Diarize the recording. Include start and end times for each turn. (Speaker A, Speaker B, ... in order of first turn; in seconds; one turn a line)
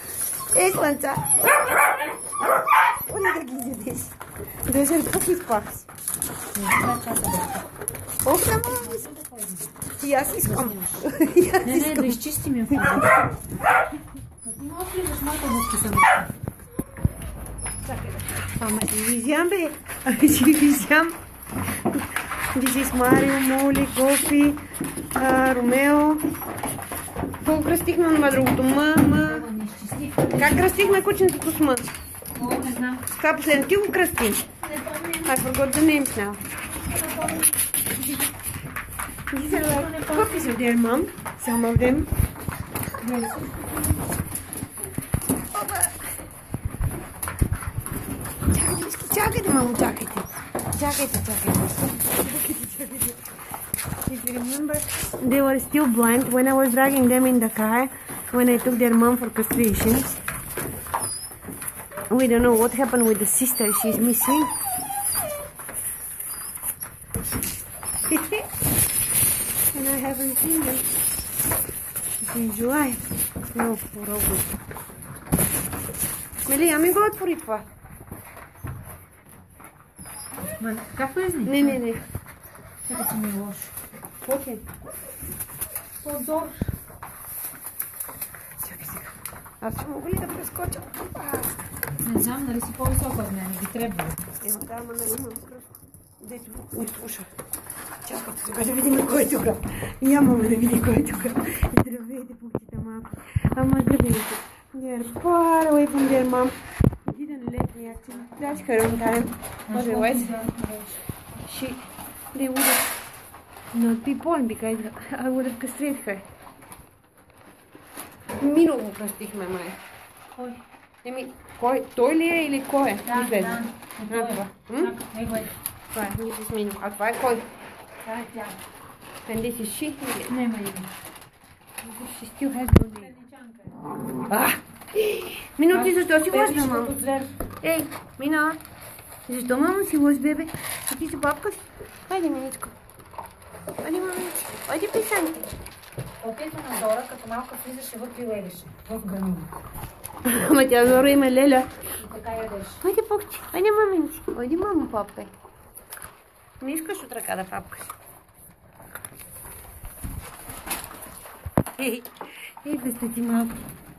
Speaker A: 0.5-1.4
Speaker A: 3.1-4.2
Speaker A: 4.7-5.9
Speaker B: 6.5-7.7
Speaker A: 8.2-9.1
Speaker B: 8.7-9.7
Speaker A: 9.9-12.2
Speaker B: 10.4-11.1
Speaker B: 11.6-13.2
Speaker B: 14.4-16.3
Speaker A: 17.8-21.2
Speaker A: 21.9-24.6
Speaker A: 25.1-26.3
Speaker A: 27.4-29.5
Speaker B: 29.0-31.1
Speaker A: 30.3-31.9
Speaker B: 32.4-33.1
Speaker A: 33.1-34.5
Speaker B: 34.6-35.3
Speaker A: 35.2-36.4
Speaker B: 36.8-37.5
Speaker A: 39.3-42.1
Speaker B: 39.5-40.5
Speaker B: 43.0-44.0
Speaker A: 45.5-46.1
Speaker A: 48.5-53.2
Speaker A: 54.1-60.2
Speaker A: 62.1-64.5
Speaker A: 68.1-68.5
Speaker A: 69.7-70.9
Speaker A: 72.2-74.5
Speaker A: 76.5-77.7
Speaker B: 80.6-81.8
Speaker A: 81.5-82.0
Speaker B: 82.8-83.7
Speaker A: 84.2-84.7
Speaker B: 86.0-86.7
Speaker A: 88.6-89.1
Speaker A: 89.6-91.6
Speaker B: 92.0-94.3
Speaker A: 94.4-97.3
Speaker A: 98.0-110.3
Speaker B: 109.7-111.0
Speaker A: 111.5-112.9
Speaker A: 113.7-116.3
Speaker A: 118.3-119.8
Speaker B: 120.4-120.6
Speaker A: 121.0-125.0
Speaker B: 123.0-125.5
Speaker A: 125.9-127.5
Speaker B: 128.0-128.6
Speaker A: 129.3-130.4
Speaker B: 130.3-130.9
Speaker A: 131.8-133.2
Speaker B: 133.0-133.8
Speaker A: 134.2-137.0
Speaker B: 135.7-137.4
Speaker A: 137.6-138.6
Speaker A: 139.3-142.8
Speaker A: 143.8-145.5
Speaker B: 146.2-149.5
Speaker A: 150.2-151.7
Speaker B: 152.0-152.8
Speaker A: 152.8-155.3
Speaker A: 156.6-157.9
Speaker A: 161.8-163.6